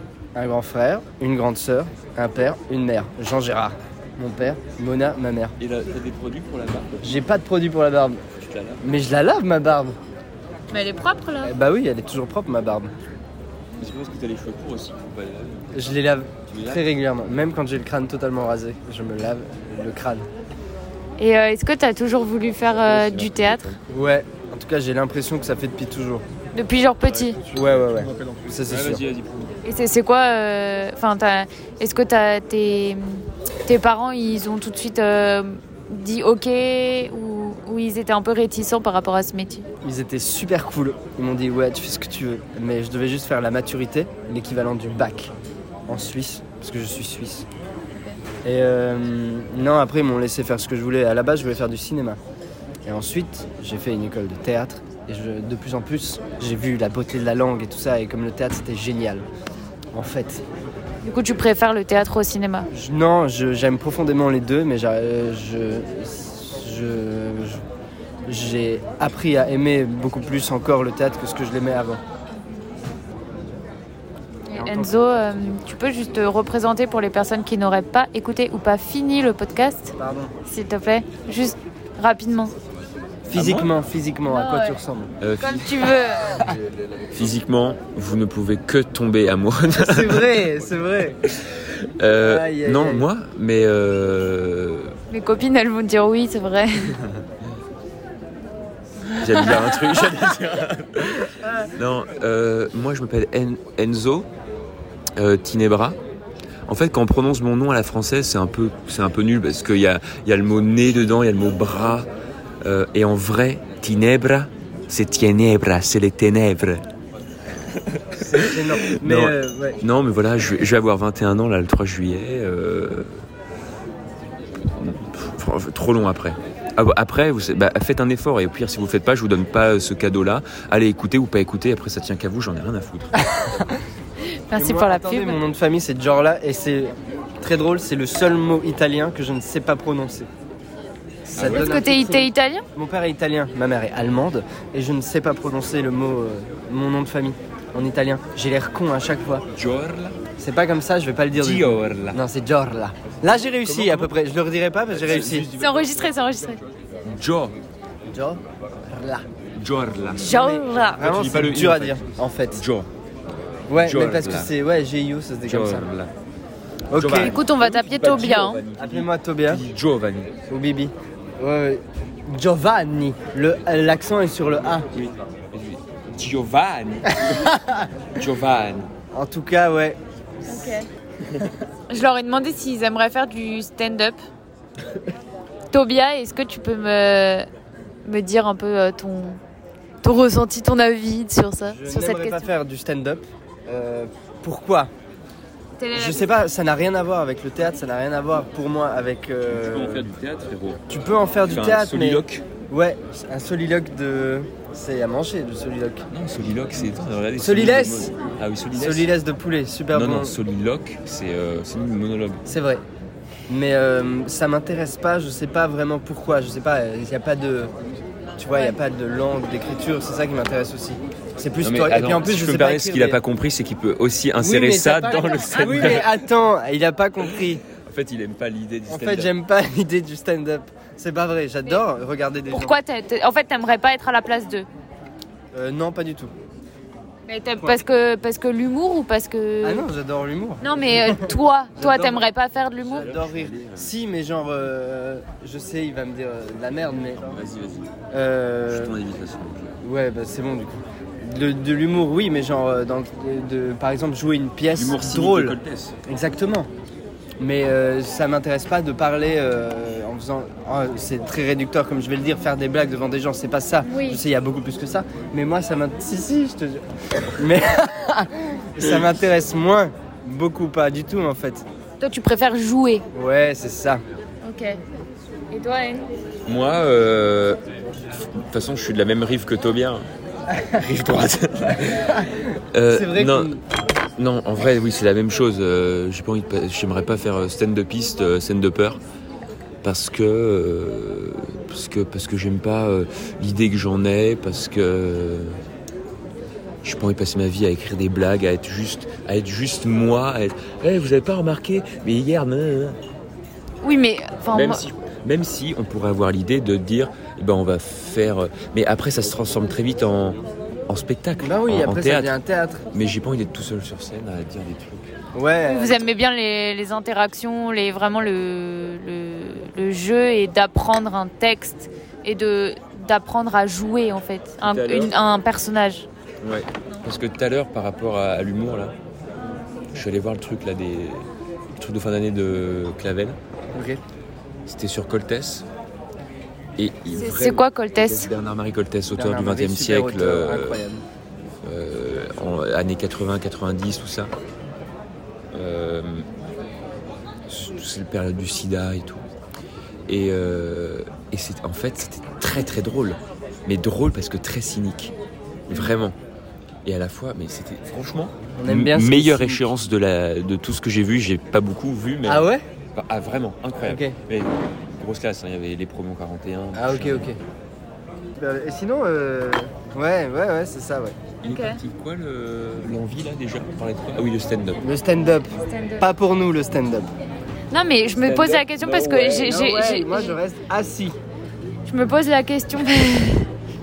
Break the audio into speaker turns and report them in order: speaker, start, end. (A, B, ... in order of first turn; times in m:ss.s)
0:00.3-0:05.6 A
0:05.6-0:07.2 B
0:07.0-0:08.2 A
0:08.4-0:09.0 B
0:08.8-0:10.0 A
0:10.7-0:11.5 C
0:11.4-0:12.9 A
0:13.8-0:16.0 B
0:15.7-0:20.3 A
0:16.5-0:16.9 B
0:21.2-0:23.7 C
0:22.8-0:23.8 B
0:23.9-0:26.2 A
0:26.5-0:27.4 C
0:27.0-0:29.6 B
0:27.5-0:29.0 A
0:29.6-0:39.6 C
0:39.8-0:45.3 A
0:45.9-0:47.5 A
0:48.4-0:52.2 A
0:52.8-0:59.3 A
0:59.9-1:00.4 A
1:01.0-1:02.7 C
1:02.7-1:07.6 A
1:08.3-1:12.0 A
1:14.5-1:22.5 C
1:14.5-1:15.0 A
1:20.0-1:20.3 A
1:23.3-1:25.1 A
1:23.3-1:23.7 B
1:24.3-1:24.8 C
1:25.2-1:25.9 B
1:25.4-1:26.3 C
1:27.1-1:30.4 B
1:29.7-1:31.2 A
1:31.2-1:34.9 B
1:32.2-1:33.1 A
1:35.1-1:37.0 C
1:39.1-1:39.5 C
1:39.2-1:44.3 B
1:45.2-1:46.0 B
1:46.7-1:52.1 B
1:52.6-1:56.9 B
1:57.7-2:03.2 B
1:58.2-1:59.8 A
2:04.7-2:13.3 B
2:14.5-2:15.4 C
2:14.5-2:20.3 A
2:21.2-2:29.4 A
2:21.3-2:21.7 B
2:21.4-2:22.6 C
2:29.5-2:30.2 B
2:30.4-2:35.5 A
2:31.3-2:32.2 B
2:33.3-2:34.1 B
2:34.9-2:36.4 B
2:35.6-2:36.6 C
2:37.0-2:37.5 B
2:38.1-2:39.2 A
2:39.5-2:40.3 B
2:40.1-2:42.6 A
2:40.1-2:41.1 C
2:41.0-2:42.9 B
2:43.7-2:44.5 B
2:43.7-2:45.9 A
2:45.4-2:46.1 B
2:46.9-2:47.4 A
2:46.9-2:50.3 B
2:47.1-2:48.6 C
2:48.8-2:49.6 A
2:50.5-2:54.8 A
2:54.9-2:57.6 B
2:58.1-2:58.9 B
2:59.1-3:00.8 A
3:00.5-3:00.9 C
3:01.9-3:04.2 C
3:05.7-3:07.5 C
3:08.0-3:09.4 C
3:10.0-3:12.5 C
3:11.6-3:14.9 A
3:15.8-3:16.4 C
3:15.9-3:20.1 A
3:19.5-3:20.8 B
3:20.9-3:26.1 A
3:21.4-3:22.5 B
3:26.1-3:29.1 B
3:27.4-3:28.2 A
3:28.7-3:30.4 A
3:29.9-3:32.4 B
3:32.4-3:32.8 A
3:33.5-3:37.7 A
3:38.4-3:43.2 A
3:41.6-3:46.2 B
3:44.4-3:47.6 A
3:45.1-3:45.9 C
3:47.3-3:49.3 B
3:48.9-3:52.8 A
3:52.5-3:54.7 C
3:55.5-3:56.3 A
3:57.2-3:59.9 C
3:57.6-3:57.8 A
3:59.6-4:02.2 A
4:00.6-4:03.1 C
4:02.8-4:03.9 B
4:02.9-4:07.3 A
4:07.2-4:07.9 B
4:08.1-4:09.0 A
4:08.7-4:09.8 B
4:09.8-4:16.7 A
4:14.7-4:15.9 B
4:17.4-4:31.6 A
4:23.8-4:24.2 C
4:32.0-4:33.0 C
4:33.1-4:34.0 A
4:34.4-4:34.8 C
4:35.5-4:36.1 C
4:36.4-4:37.6 B
4:38.1-4:40.0 B
4:40.8-4:43.5 B
4:42.1-4:43.6 A
4:44.2-4:49.0 B
4:49.8-4:55.6 B
4:56.8-5:03.0 B
5:03.8-5:04.8 C
5:04.5-5:12.4 B
5:11.4-5:12.9 A
5:12.9-5:15.1 B
5:15.3-5:16.1 A
5:15.6-5:26.1 C
5:24.6-5:25.2 B
5:26.4-5:28.9 B
5:29.9-5:33.4 B
5:33.8-5:34.0 A
5:34.6-5:35.7 B
5:36.8-5:40.8 B
5:37.1-5:38.3 C
5:39.1-5:41.0 A
5:41.6-5:44.3 B
5:45.5-5:46.3 B
5:47.5-5:49.2 B
5:50.1-5:55.1 B
5:55.7-5:56.2 B
5:55.7-5:56.0 A
5:56.8-6:07.3 B
5:58.6-5:59.7 A
6:02.2-6:02.6 A
6:03.8-6:04.2 A
6:06.7-6:07.4 A
6:08.4-6:11.2 A
6:11.4-6:14.8 B
6:11.5-6:11.8 C
6:14.8-6:17.1 A
6:15.6-6:16.1 C
6:17.7-6:20.4 C
6:18.1-6:19.5 B
6:19.3-6:21.2 A
6:21.8-6:23.5 C